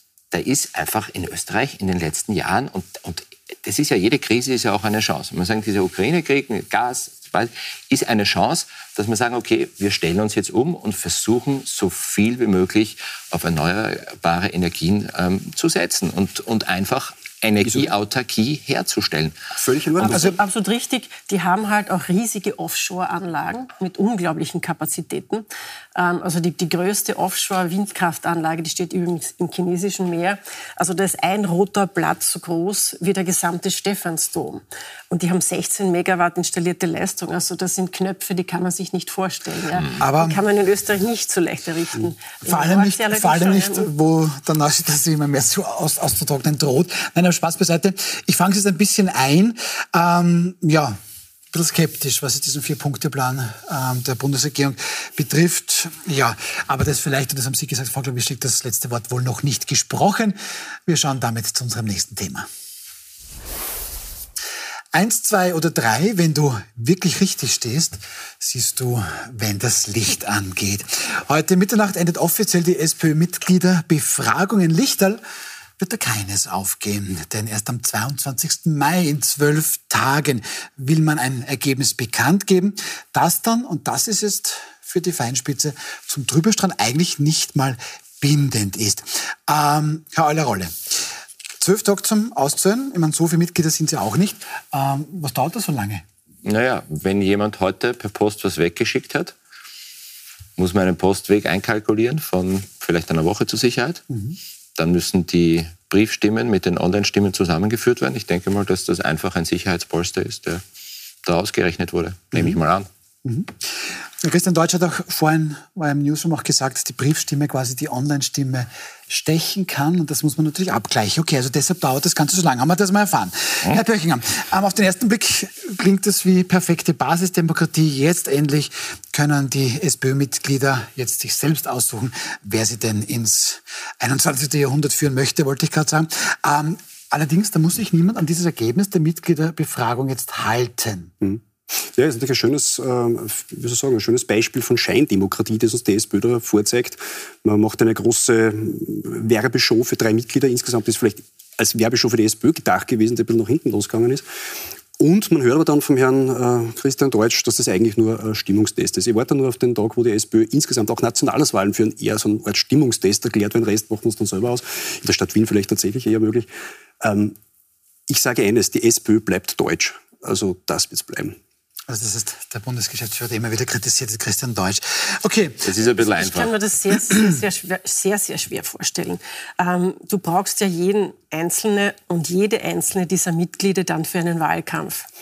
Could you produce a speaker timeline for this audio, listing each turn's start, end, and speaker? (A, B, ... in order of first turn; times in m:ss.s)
0:00.3-0:19.4 A
0:17.6-0:17.9 B
0:19.6-0:20.3 B
0:20.0-0:43.9 C
0:40.0-0:40.4 D
0:42.4-0:51.0 D
0:51.5-1:02.5 D
1:04.9-1:15.2 D
1:15.8-1:31.0 D
1:31.6-1:36.0 D
1:36.4-1:39.4 A
1:40.6-1:44.0 A
1:44.1-1:44.4 D
1:44.8-1:50.6 A
1:51.3-1:52.9 A
1:53.2-2:21.1 D
2:21.2-2:34.2 B
2:35.0-2:46.5 B
2:47.0-2:47.4 B
2:48.1-2:51.4 B
2:51.9-2:55.7 D
2:55.6-2:56.5 A
2:56.0-3:05.1 C